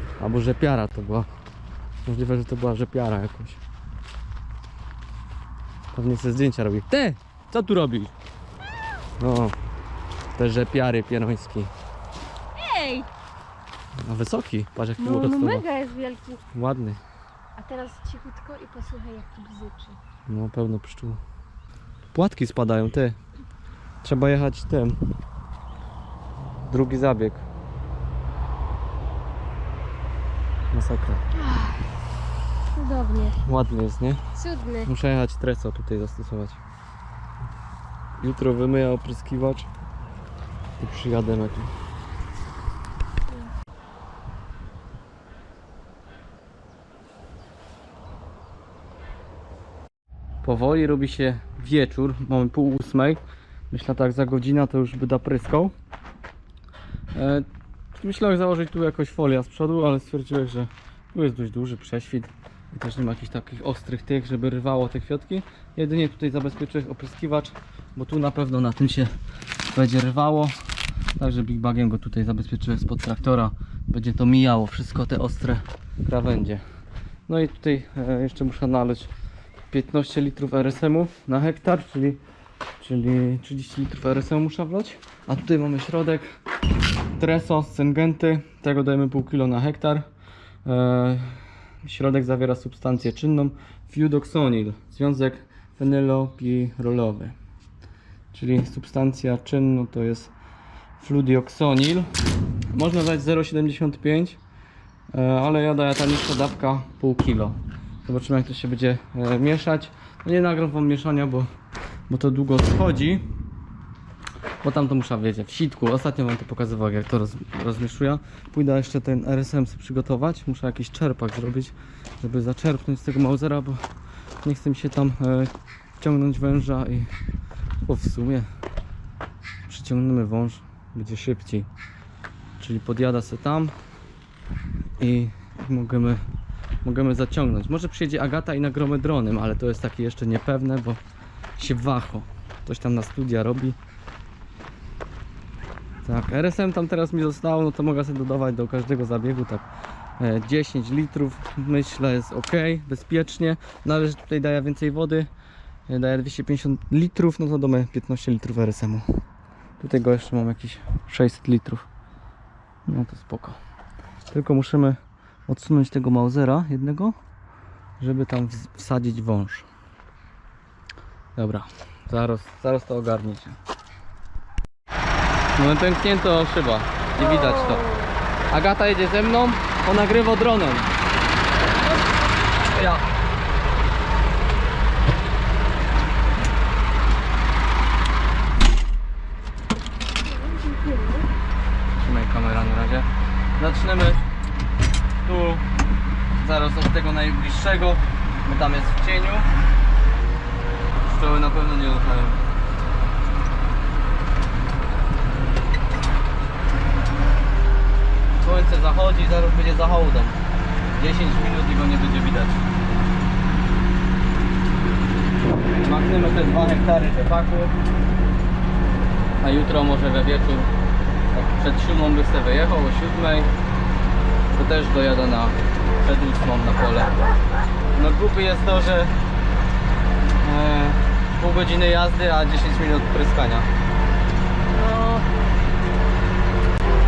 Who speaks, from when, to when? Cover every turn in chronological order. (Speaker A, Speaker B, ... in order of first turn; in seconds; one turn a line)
Speaker A: 0.2-1.3
Speaker A: 2.0-3.6
Speaker A: 5.9-8.1
Speaker A: 9.2-9.6
Speaker A: 10.4-11.7
Speaker B: 12.6-13.1
Speaker A: 14.1-15.7
Speaker B: 15.0-16.4
Speaker A: 16.5-17.0
Speaker B: 17.6-20.0
Speaker A: 20.3-21.2
Speaker A: 22.1-23.2
Speaker A: 24.0-25.0
Speaker A: 26.6-27.4
Speaker A: 30.7-31.2
Speaker B: 32.7-33.4
Speaker A: 33.4-34.3
Speaker B: 34.4-34.9
Speaker A: 34.8-36.6
Speaker A: 38.2-39.7
Speaker A: 40.8-41.7
Speaker A: 50.4-55.7
Speaker A: 57.1-69.1
Speaker A: 69.7-70.6
Speaker A: 71.2-76.6
Speaker A: 77.3-79.1
Speaker A: 79.7-82.2
Speaker A: 82.8-86.3
Speaker A: 87.2-90.0
Speaker A: 90.7-97.4
Speaker A: 98.3-100.3
Speaker A: 101.0-102.1
Speaker A: 102.7-104.4
Speaker A: 105.1-111.5
Speaker A: 112.1-113.2
Speaker A: 114.6-123.8
Speaker A: 124.4-127.1
Speaker A: 127.8-128.5
Speaker A: 129.7-131.7
Speaker A: 132.6-133.7
Speaker A: 135.0-136.2
Speaker A: 136.8-141.0
Speaker A: 141.6-143.8
Speaker A: 146.1-149.7
Speaker A: 150.2-155.3
Speaker A: 155.9-159.1
Speaker A: 159.8-161.9
Speaker A: 162.9-163.6
Speaker A: 164.3-167.2
Speaker A: 168.0-169.7
Speaker A: 171.4-173.6
Speaker A: 175.6-177.9
Speaker B: 177.2-178.1
Speaker A: 178.5-180.9
Speaker A: 182.7-183.0
Speaker B: 190.2-191.3
Speaker A: 192.0-194.2
Speaker A: 195.2-195.7
Speaker A: 196.4-199.5
Speaker A: 201.0-202.4
Speaker A: 208.4-210.4
Speaker A: 211.0-212.7
Speaker A: 215.8-217.7
Speaker A: 219.4-220.7
Speaker A: 221.3-223.5
Speaker A: 224.5-227.2
Speaker A: 227.9-229.1
Speaker A: 230.4-233.7
Speaker B: 234.8-235.3